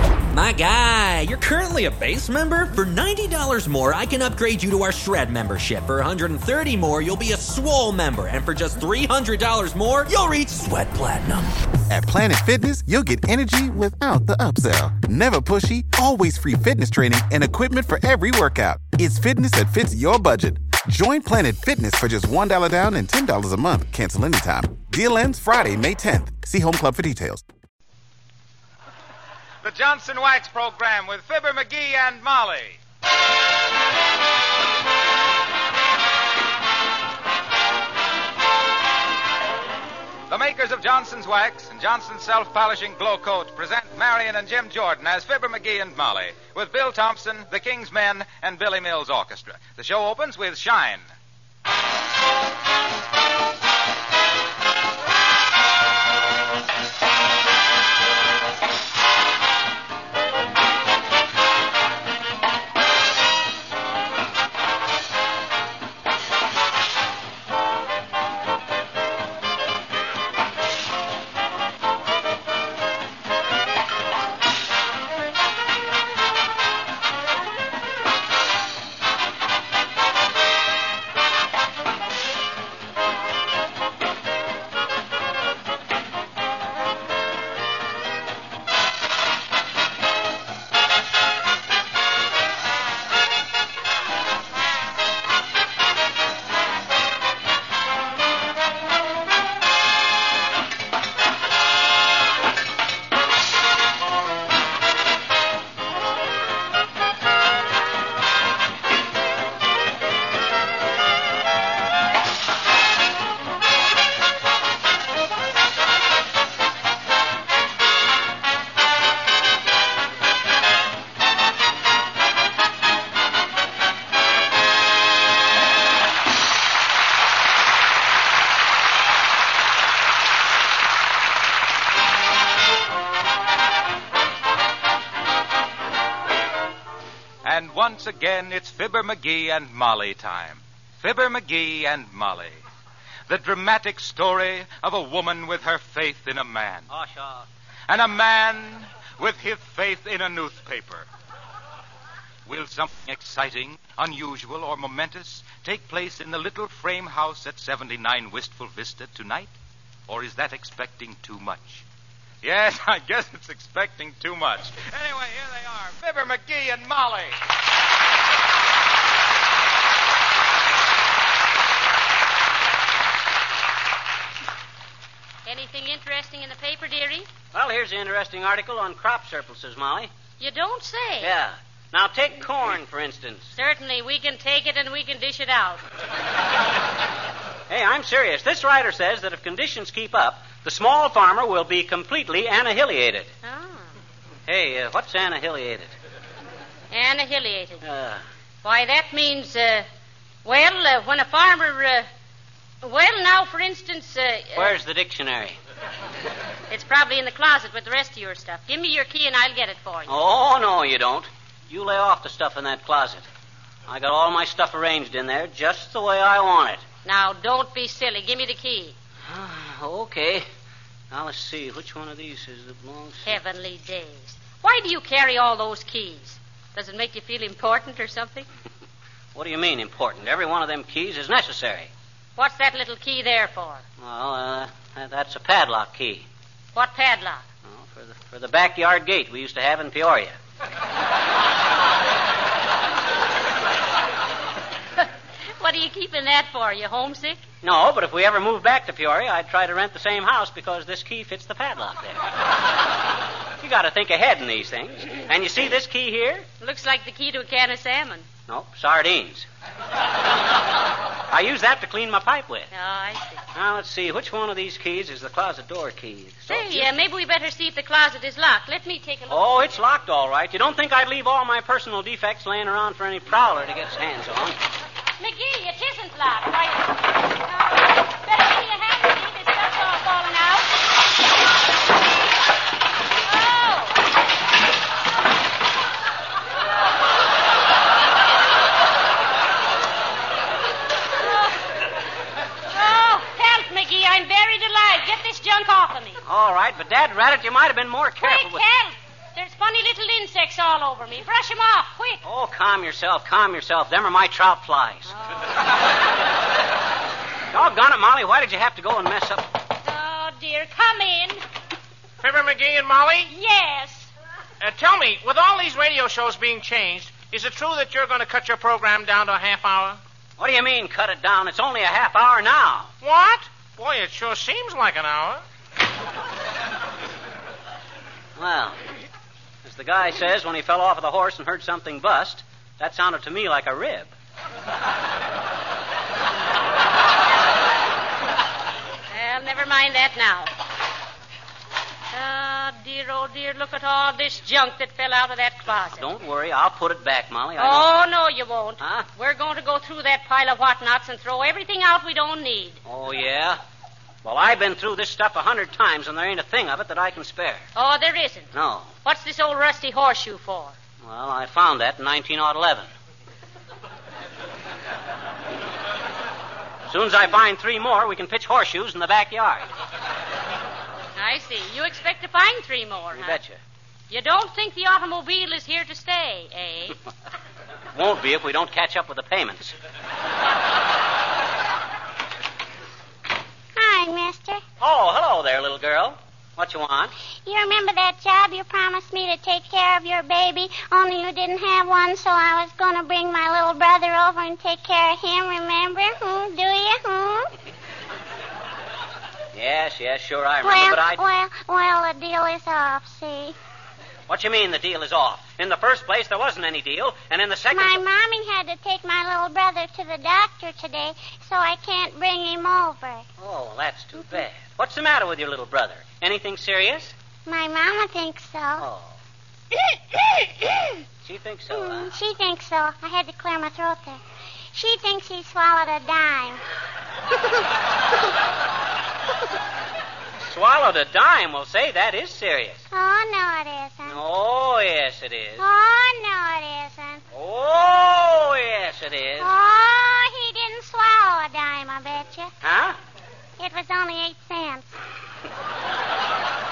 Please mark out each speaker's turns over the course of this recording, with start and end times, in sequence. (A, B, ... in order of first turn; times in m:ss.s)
0:00.3-0:11.5 A
0:11.9-0:27.4 B
0:29.6-0:32.8 C
0:40.3-0:51.0 C
2:17.4-2:22.6 C
2:23.3-2:26.9 C
2:26.9-2:27.5 D
2:27.9-2:31.1 C
2:32.4-2:39.5 C
2:40.1-2:41.8 C
2:42.4-2:47.4 C
2:55.4-2:57.3 E
2:57.5-3:00.1 D
3:00.4-3:01.3 E
3:01.2-3:03.5 D
3:03.5-3:05.8 E
3:07.7-3:13.3 D
3:13.4-3:13.9 E
3:14.5-3:15.9 D
3:16.9-3:17.8 E
3:17.8-3:18.2 D
3:18.6-3:19.9 E
3:20.4-3:22.1 E
3:22.8-3:24.8 E
3:24.6-3:25.6 D
3:26.7-3:30.1 E
3:30.1-3:33.2 D
3:33.9-3:36.8 D
3:37.0-3:38.9 E
3:39.2-3:40.5 D
3:41.1-3:43.4 D
3:43.2-3:48.5 E
3:49.3-3:51.9 D
3:52.4-3:53.8 E
3:54.0-3:56.3 D
3:56.7-3:57.4 E
3:57.6-4:00.3 D
4:05.6-4:07.4 E
4:07.6-4:12.2 D
4:13.6-4:16.4 D
4:16.6-4:18.3 E
4:18.5-4:19.5 D
4:21.3-4:22.7 D
4:22.7-4:23.4 E
4:23.5-4:26.9 D
4:26.5-4:29.8 E
4:29.3-4:34.6 D
4:35.2-4:40.7 E
4:43.2-4:44.0 E
4:51.2-4:51.6 E
4:52.7-4:56.2 E
4:56.2-4:58.6 D
4:58.2-5:02.2 E
5:02.2-5:05.1 D
5:07.5-5:09.5 D
5:09.8-5:11.4 E
5:12.2-5:13.3 F
5:13.3-5:14.1 E
5:14.6-5:20.0 F
5:20.4-5:22.9 D
5:23.0-5:25.4 F
5:28.4-5:28.8 D
5:29.6-5:34.1 D
5:39.1-5:40.5 E
5:42.1-5:46.0 E
5:46.0-5:47.9 D
5:47.6-5:52.8 E
5:48.8-5:49.1 D
5:52.8-5:53.6 D
5:54.2-5:57.6 D
5:57.7-5:58.5 E
5:58.5-5:58.9 D
5:59.0-6:00.7 E
6:01.0-6:02.9 D
6:06.9-6:09.7 D
6:11.2-6:13.4 E
6:13.1-6:13.6 D
6:14.1-6:17.0 E
6:17.9-6:19.7 D
6:23.8-6:24.6 G
6:24.8-6:27.1 D
6:27.4-6:37.5 G
6:39.5-6:41.2 D
6:40.6-6:43.6 G
6:44.3-6:48.0 D
6:47.7-6:53.2 G
6:53.4-6:57.1 D
6:57.4-6:58.9 G
6:58.8-6:59.1 D
7:01.2-7:02.1 D
7:01.7-7:04.2 G
7:04.7-7:06.6 G
7:10.5-7:12.8 D
7:12.9-7:14.2 G
7:14.1-7:15.6 D
7:15.6-7:17.2 G
7:17.3-7:19.5 D
7:19.4-7:22.5 G
7:22.6-7:23.0 D
7:23.6-7:24.8 G